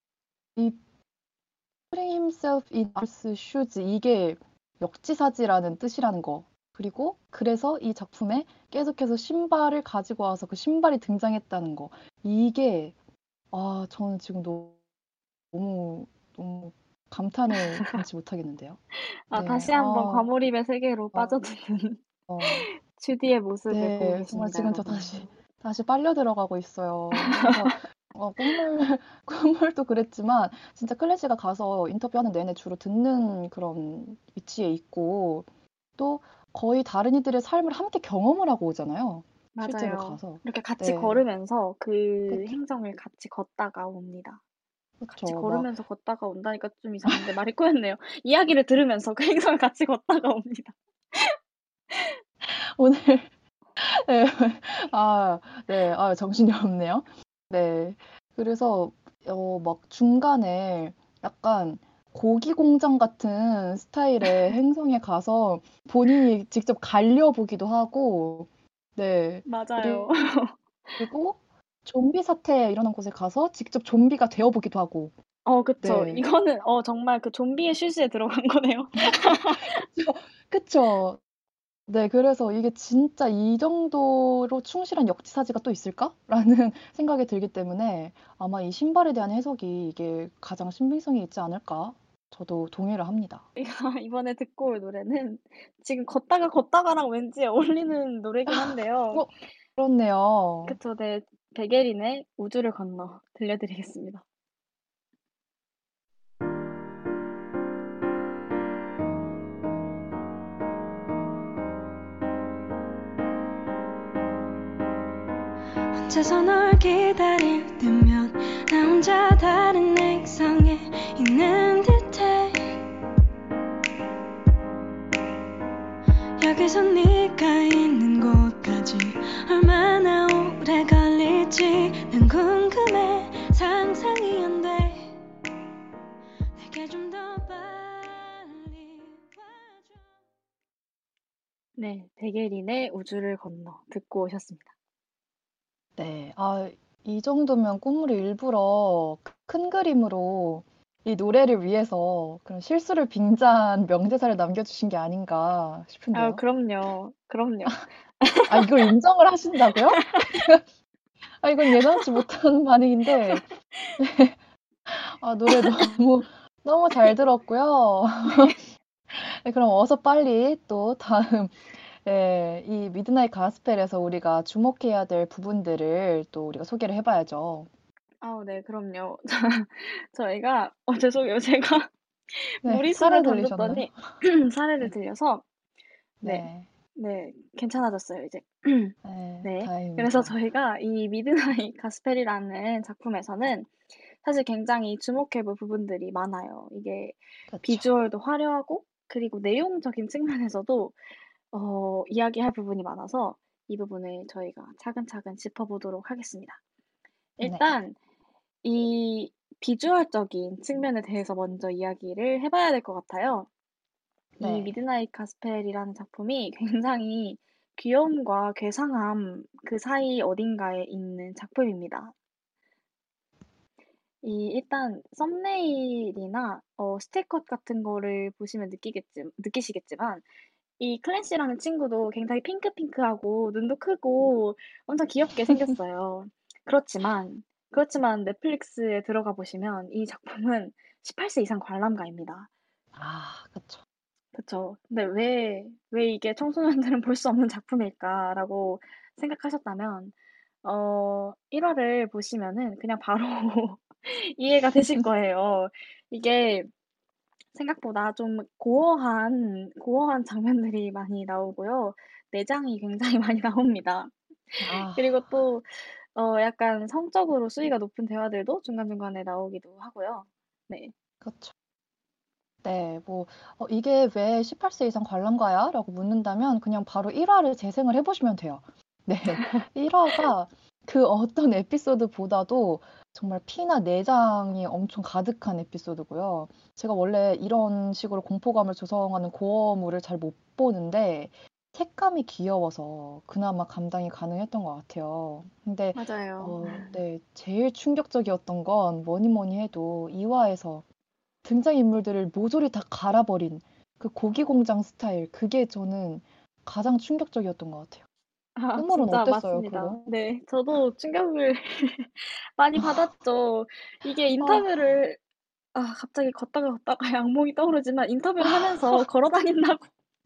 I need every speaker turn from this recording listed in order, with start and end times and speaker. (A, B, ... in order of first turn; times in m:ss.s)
0:01.9-0:12.9 A
0:13.5-0:14.8 A
0:15.5-0:18.8 A
0:17.5-0:18.0 B
0:18.9-0:25.1 B
0:19.3-0:20.3 A
0:22.3-0:22.7 A
0:23.7-0:35.5 A
0:27.1-0:27.8 B
0:36.0-0:41.2 A
0:39.5-0:44.4 B
0:42.3-0:42.6 A
0:45.0-0:45.7 A
0:45.2-0:51.3 B
0:47.1-0:47.3 A
0:52.4-1:10.1 A
1:09.4-1:11.0 B
1:11.0-1:15.1 A
1:15.4-1:19.8 B
1:15.8-1:16.2 A
1:19.1-1:21.2 A
1:21.9-1:33.4 A
1:33.6-1:39.2 B
1:38.5-1:40.8 A
1:40.7-1:44.2 B
1:55.9-2:02.8 C
2:06.4-2:15.2 C
2:16.6-2:20.0 C
2:21.8-2:24.7 B
2:26.0-2:36.4 A
2:36.1-2:38.8 B
2:38.5-2:40.6 A
2:39.9-2:40.3 B
2:41.4-2:43.4 A
2:41.7-2:42.2 B
2:43.2-2:44.0 B
2:44.0-2:48.6 A
2:45.5-2:45.9 B
2:49.1-2:57.7 A
2:58.2-3:05.4 B
3:02.6-3:04.0 A
3:06.2-3:06.7 A
3:06.2-3:21.0 B
3:09.0-3:10.3 A
3:17.5-3:17.9 A
3:21.5-3:26.6 B
3:27.4-3:28.0 B
3:27.4-3:27.7 A
3:28.6-3:33.5 B
3:34.4-3:34.7 A
3:34.4-3:42.1 B
3:44.2-3:50.2 B
3:50.8-4:02.5 B
4:02.9-4:03.8 A
4:04.3-4:16.7 B
4:17.5-4:30.9 B
4:24.6-4:25.2 A
4:31.2-4:31.5 A
4:32.6-5:00.8 A
4:39.3-4:40.2 B
4:55.9-4:57.0 B
5:01.4-5:08.0 A
5:08.6-5:15.2 B
5:08.7-5:10.1 A
5:14.4-5:15.0 A
5:15.7-5:19.9 B
5:18.4-5:19.0 A